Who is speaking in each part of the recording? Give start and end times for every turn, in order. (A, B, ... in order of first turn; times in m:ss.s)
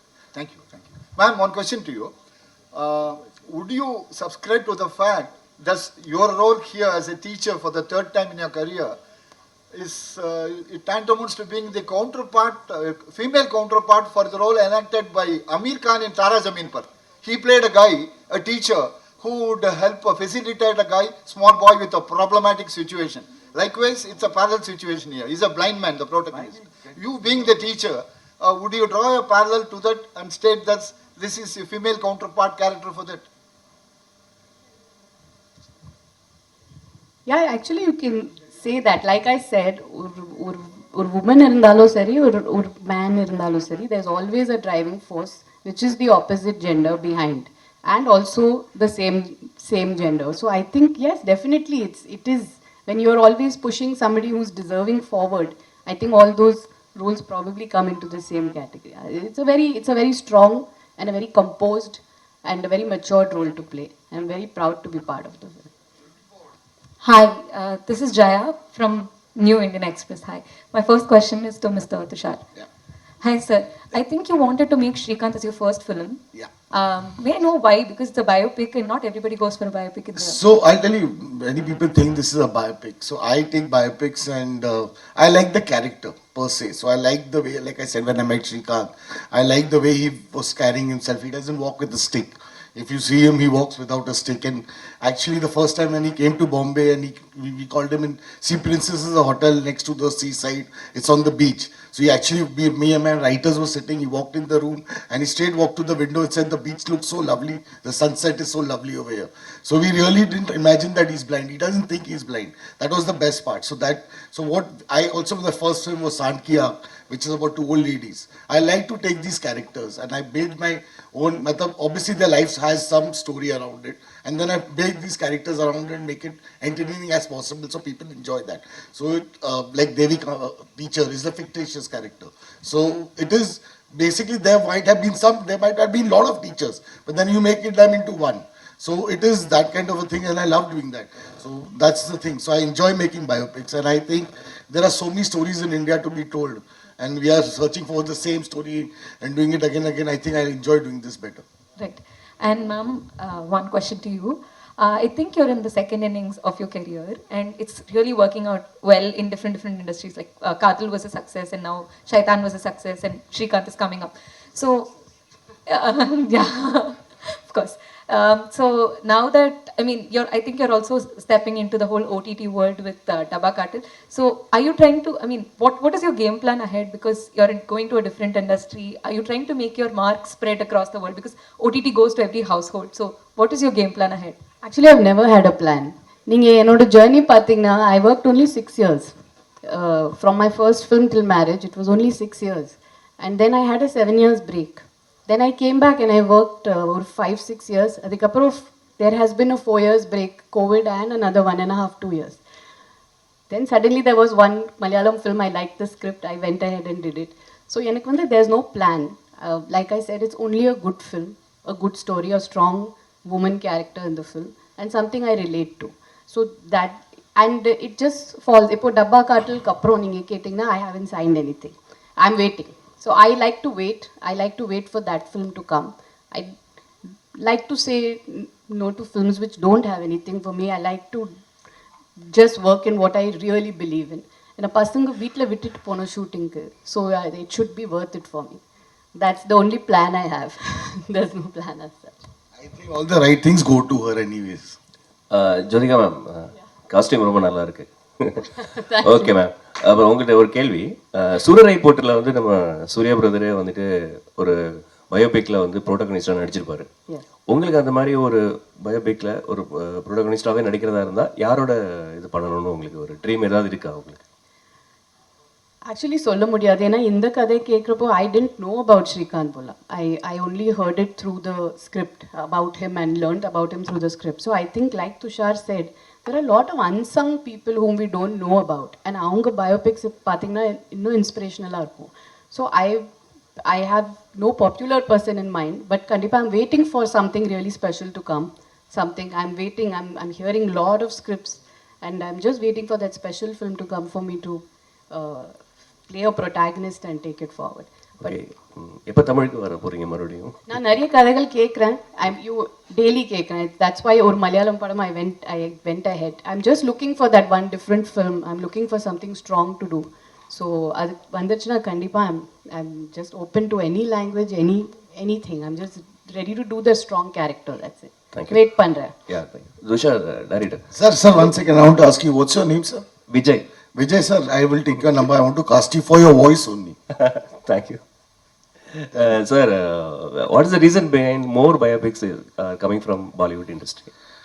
0:00.3-0:02.1 A
0:02.7-0:09.0 A
0:09.7-0:33.2 A
0:37.2-1:05.7 B
1:07.0-1:12.4 C
1:13.2-1:20.4 C
1:20.2-2:31.4 D
2:31.8-2:44.9 C
2:45.6-3:04.4 C
3:04.6-3:22.4 B
3:23.5-3:46.6 B
3:47.3-3:51.4 B
3:52.2-3:58.6 B
3:59.2-4:02.3 B
4:02.6-4:04.8 D
4:05.3-4:16.9 E
4:08.5-4:09.4 B
4:17.5-4:24.2 E
4:25.8-4:43.1 B
4:43.6-4:58.4 B
4:58.2-5:00.8 E
5:00.7-5:19.1 B
5:18.3-5:18.6 E
5:19.3-5:20.8 E
5:20.9-5:23.1 D
5:23.3-5:23.6 E
5:23.9-5:27.0 D
5:27.1-5:28.0 E
5:28.9-5:34.1 E